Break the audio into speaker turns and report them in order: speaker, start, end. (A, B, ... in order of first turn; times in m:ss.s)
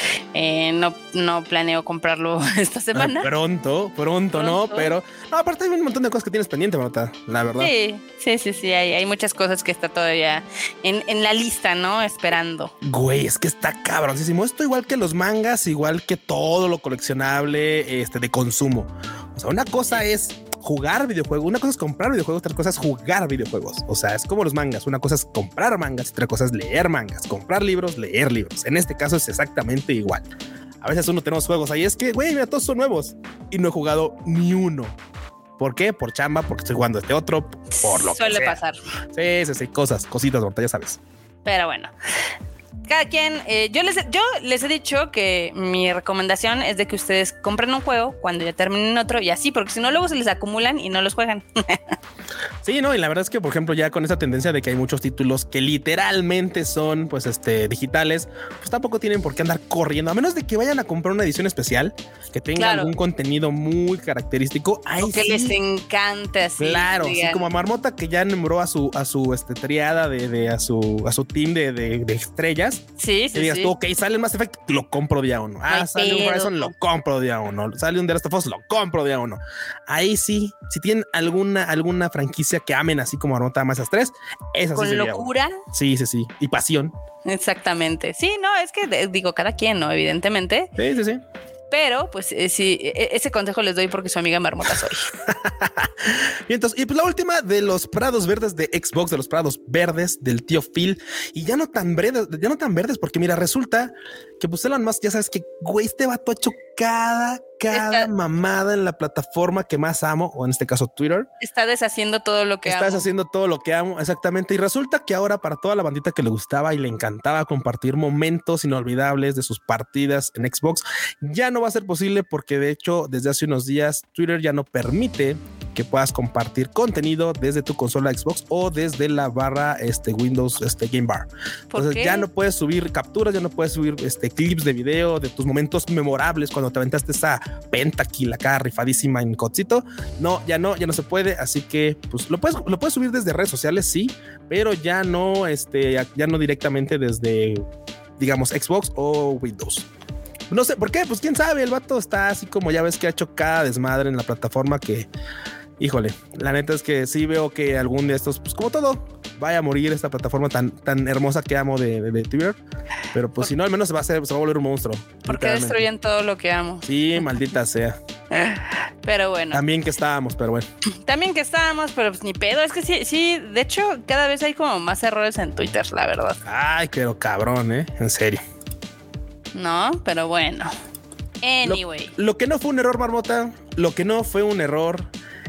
0:00.3-0:03.3 A
0:02.9-0:07.7 B
0:04.3-0:04.9 A
0:07.6-0:12.7 A
0:12.8-0:30.2 B
0:30.8-0:35.0 B
0:35.6-0:38.6 B
0:37.7-0:38.8 A
0:39.1-0:41.0 B
0:41.4-0:41.9 A
0:42.9-0:51.9 A
0:52.6-1:05.6 B
1:02.6-1:02.9 A
1:05.0-1:07.4 A
1:06.6-1:26.9 B
1:13.0-1:13.7 A
1:15.7-1:16.7 A
1:24.7-1:25.6 A
1:27.2-1:30.7 A
1:30.8-1:31.2 B
1:31.7-1:35.1 A
1:35.2-1:51.3 B
1:47.7-1:48.1 A
1:51.4-1:53.1 A
1:52.6-2:27.6 B
2:11.7-2:12.2 A
2:28.2-2:29.9 B
2:30.5-2:35.1 B
2:35.8-2:42.6 B
2:43.1-2:45.8 B
2:45.2-2:46.8 A
2:46.8-2:48.0 B
2:48.3-2:49.6 A
2:49.5-2:50.6 B
2:51.0-2:56.4 A
2:56.4-2:58.4 B
2:59.5-3:00.7 A
3:01.4-3:02.1 A
3:01.6-3:05.1 B